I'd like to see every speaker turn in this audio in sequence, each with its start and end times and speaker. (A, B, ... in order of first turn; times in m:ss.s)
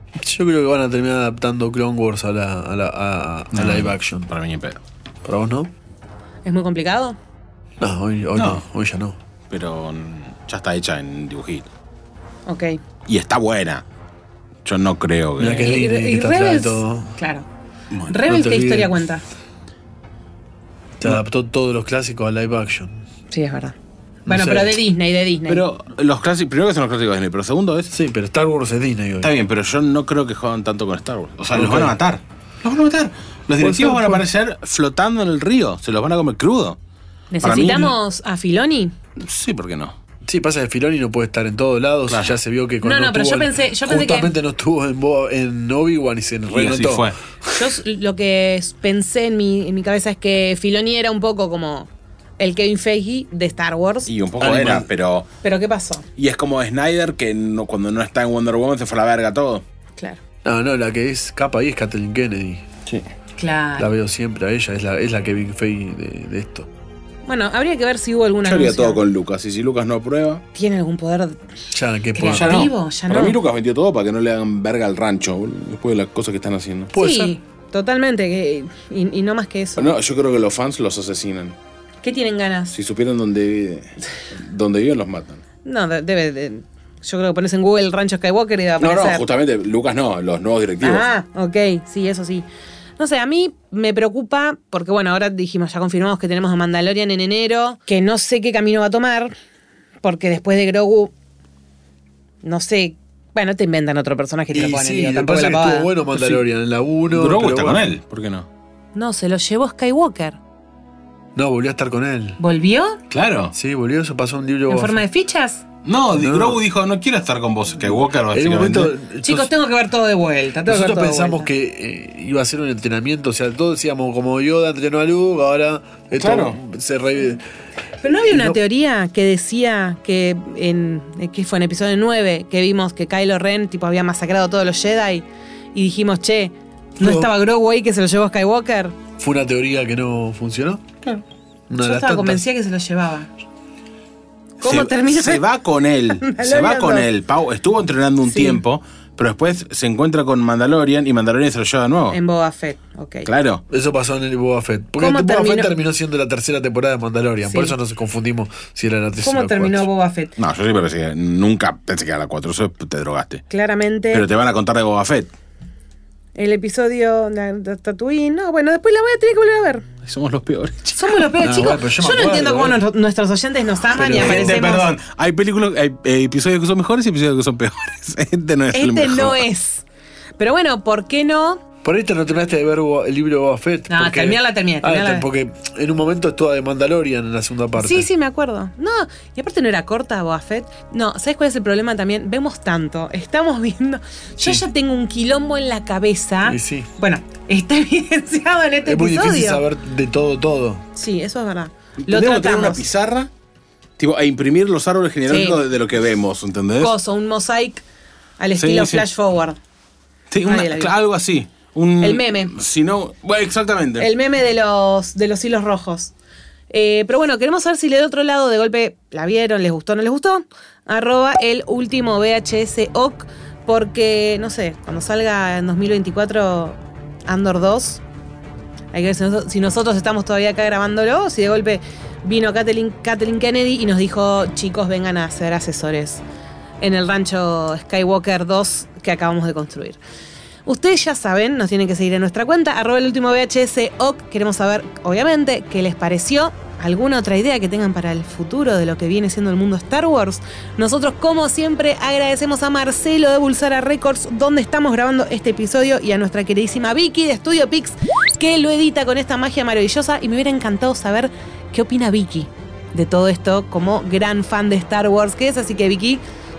0:00.2-0:04.3 A
0:03.5-0:04.8 B
0:05.2-0:05.7 A
0:06.4-0:07.2 C
0:07.8-0:09.2 A
0:08.3-0:08.6 B
0:09.5-0:11.7 B
0:12.4-0:12.8 C
0:13.0-0:13.8 B
0:14.6-0:15.8 B
0:15.4-0:17.2 A
0:15.6-0:17.5 C
0:17.9-0:18.2 B
0:18.1-0:19.2 C
0:18.2-0:19.0 A
0:21.0-0:23.0 A
0:23.3-0:23.7 C
0:24.2-0:25.6 C
0:24.3-0:24.8 A
0:25.5-0:27.9 B
0:27.9-0:29.3 A
0:29.2-0:36.8 B
0:31.5-0:31.9 A
0:33.6-0:34.2 A
0:37.3-0:39.0 C
0:37.4-0:37.9 B
0:39.2-0:40.0 B
0:40.2-0:47.1 A
0:42.1-0:42.4 B
0:42.8-0:44.3 C
0:46.5-0:47.2 B
0:47.5-0:54.1 C
0:54.0-0:55.3 B
0:54.4-0:54.8 A
0:55.4-0:56.0 C
0:56.2-0:59.6 B
1:00.4-1:02.8 A
1:03.4-1:03.9 C
1:03.8-1:06.7 A
1:07.2-1:09.0 C
1:08.4-1:10.4 B
1:10.5-1:11.4 C
1:11.7-1:12.7 A
1:12.1-1:13.4 C
1:12.2-1:16.9 B
1:16.9-1:17.4 A
1:17.0-1:19.9 C
1:19.8-1:21.6 B
1:22.0-1:22.7 C
1:22.7-1:25.4 B
1:25.6-1:29.2 C
1:28.8-1:31.1 B
1:30.8-1:32.5 C
1:33.0-1:39.3 C
1:40.0-1:41.1 C
1:42.4-1:45.9 C
1:44.5-1:47.9 A
1:46.1-1:46.4 B
1:47.1-1:48.5 B
1:48.9-1:50.4 C
1:51.3-1:52.4 A
1:52.4-1:53.0 C
1:53.1-1:53.5 B
1:53.5-1:55.0 A
1:54.7-1:55.6 C
1:55.8-1:58.9 B
1:56.2-1:56.6 A
1:58.3-1:59.5 A
1:59.2-2:01.5 C
2:00.7-2:07.4 A
2:06.2-2:06.6 B
2:08.0-2:19.0 C
2:08.3-2:08.6 A
2:17.0-2:17.3 A
2:19.2-2:20.8 A
2:21.7-2:22.4 A
2:21.8-2:23.3 C
2:24.6-2:32.2 B
2:24.6-2:25.4 C
2:26.1-2:27.1 C
2:28.3-2:28.6 C
2:32.1-2:33.3 C
2:33.2-2:33.6 B
2:33.7-2:39.9 A
2:35.0-2:35.7 C
2:37.4-2:37.7 C
2:39.2-2:40.3 C
2:40.4-2:43.4 B
2:43.5-2:44.2 C
2:44.1-2:45.3 B
2:46.4-2:49.9 C
2:50.0-2:51.3 B
2:51.0-2:54.9 C
2:51.4-2:52.8 A
2:53.9-2:54.6 A
2:54.1-2:59.4 B
2:58.7-2:59.8 C
3:00.4-3:01.6 C
3:01.8-3:08.1 A
3:03.9-3:05.3 C
3:07.8-3:19.6 C
3:16.4-3:16.9 A
3:18.8-3:20.8 A
3:20.9-3:22.8 C
3:22.0-3:23.3 B
3:24.0-3:26.9 B
3:25.3-3:25.6 C
3:26.8-3:27.8 C
3:28.4-3:29.6 C
3:28.6-3:29.1 B
3:30.3-3:34.1 B
3:30.4-3:30.9 C
3:32.0-3:32.5 C
3:34.0-3:36.1 C
3:36.7-3:48.0 C
3:48.9-3:56.2 C
3:56.8-4:00.0 C
4:00.6-4:26.2 C